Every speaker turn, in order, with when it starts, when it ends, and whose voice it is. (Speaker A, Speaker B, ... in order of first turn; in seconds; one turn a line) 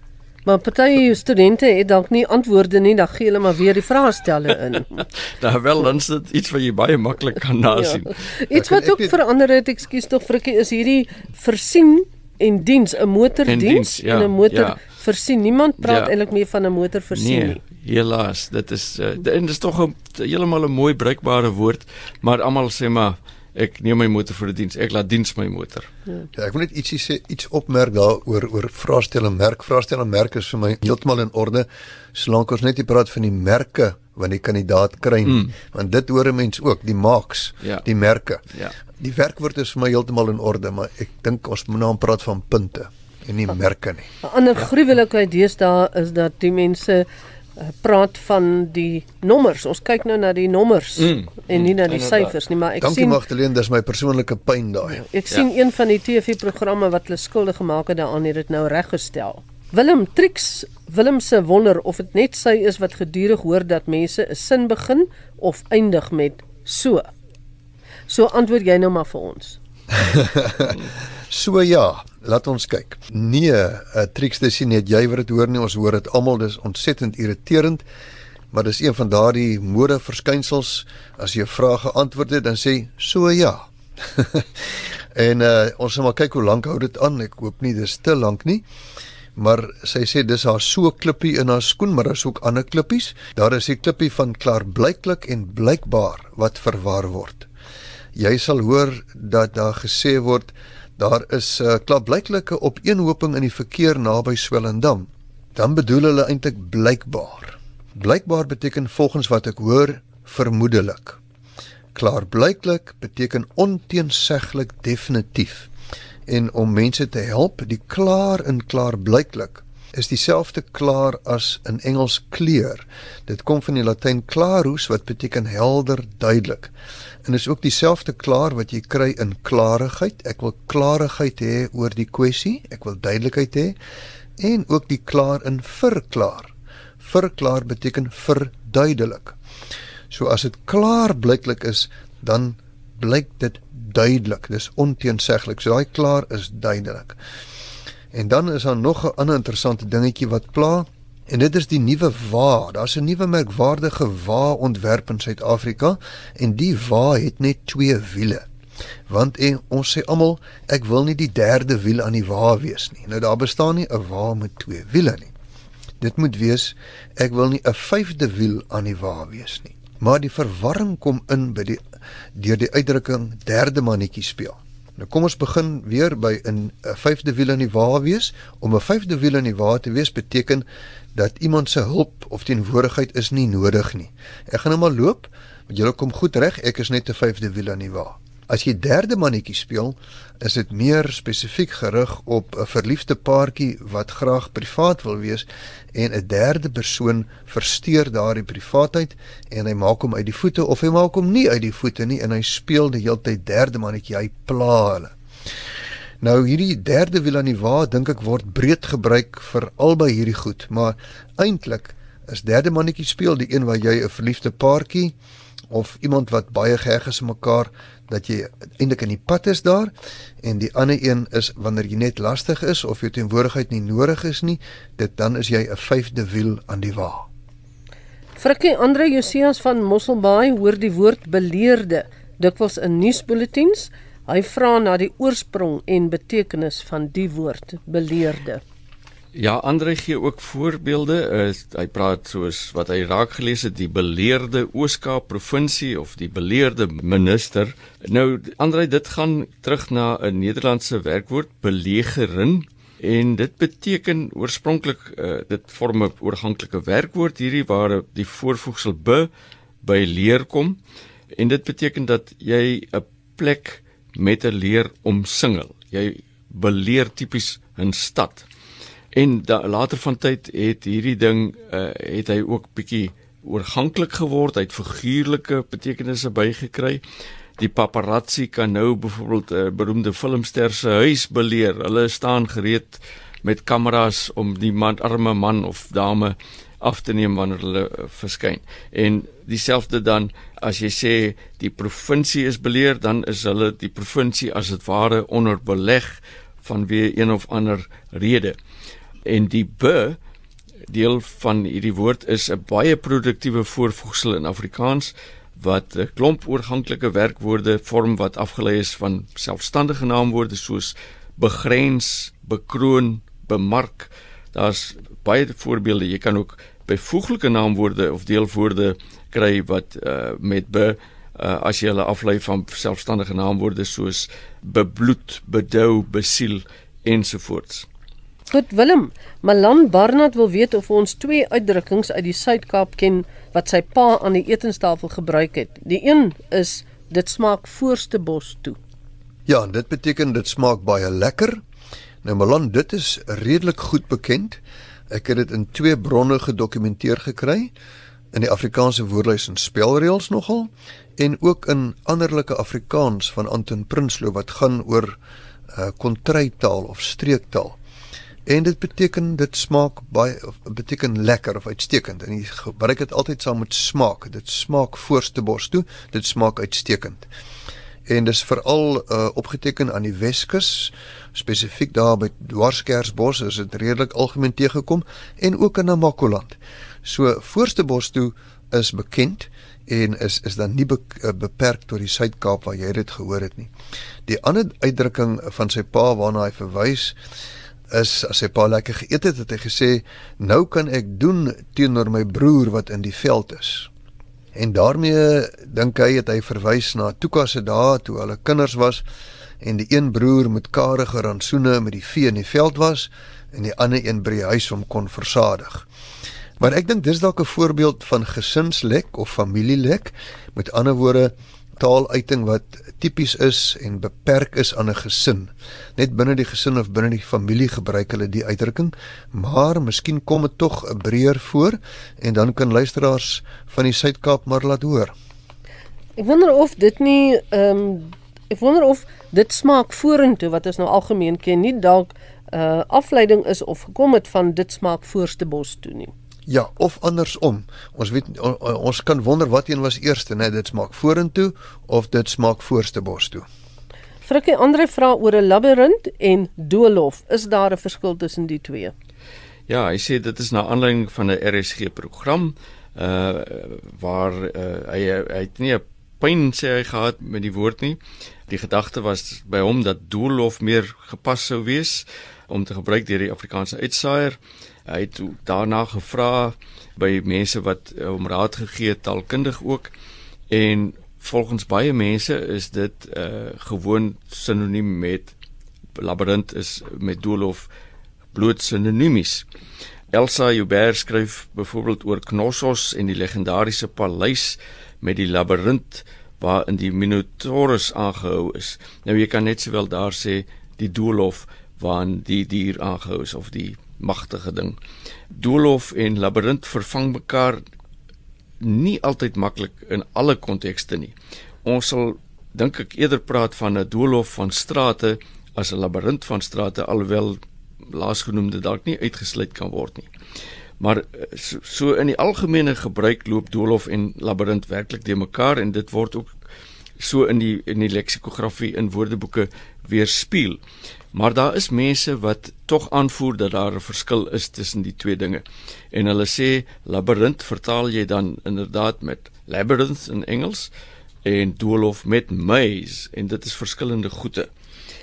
Speaker A: 0.5-5.0
Speaker B: 4.9-8.1
Speaker A: 7.7-17.6
Speaker C: 8.5-9.2
Speaker B: 13.5-14.8
Speaker B: 15.8-16.1
Speaker B: 17.1-25.9
Speaker C: 26.3-38.5
Speaker B: 35.3-35.5
Speaker C: 39.0-44.1
Speaker A: 44.2-47.1
Speaker A: 47.6-53.2
Speaker B: 51.0-52.3
Speaker C: 52.8-55.0
Speaker A: 54.9-67.1
Speaker A: 68.1-69.6
Speaker C: 70.0-77.8
Speaker C: 78.5-84.5
Speaker C: 85.2-88.6
Speaker C: 89.4-97.5
Speaker C: 98.2-111.2
Speaker C: 112.0-115.7
Speaker C: 116.3-126.7
Speaker C: 127.2-133.8
Speaker C: 134.4-139.4
Speaker C: 140.1-147.2
Speaker C: 148.1-158.4
Speaker C: 159.1-165.3
Speaker C: 166.0-171.8
Speaker C: 172.3-205.1
Speaker C: 206.2-215.2
Speaker C: 215.7-227.3
Speaker A: 228.4-238.6
Speaker B: 239.3-259.3
Speaker B: 259.8-260.8
Speaker B: 261.3-268.5
Speaker B: 269.1-277.0
Speaker B: 277.6-298.6
Speaker B: 299.3-300.2
Speaker B: 300.9-327.9
Speaker A: 328.5-338.8
Speaker C: 339.5-341.6
Speaker C: 342.2-344.6
Speaker C: 345.1-347.7
Speaker C: 348.3-355.2
Speaker C: 355.7-357.8
Speaker C: 358.5-367.3
Speaker C: 368.1-383.7
Speaker C: 384.3-387.2
Speaker C: 387.9-393.9
Speaker C: 394.6-399.1
Speaker C: 399.6-405.9
Speaker C: 406.6-425.1
Speaker A: 426.2-436.1
Speaker C: 436.5-443.5
Speaker A: 444.2-448.9
Speaker B: 449.7-469.9
Speaker B: 470.5-475.4
Speaker B: 476.0-477.7
Speaker B: 478.3-479.5
Speaker B: 480.1-494.8
Speaker B: 495.3-497.6
Speaker B: 498.6-510.1
Speaker B: 510.8-516.3
Speaker B: 517.0-520.6
Speaker B: 521.1-530.7
Speaker B: 531.2-534.5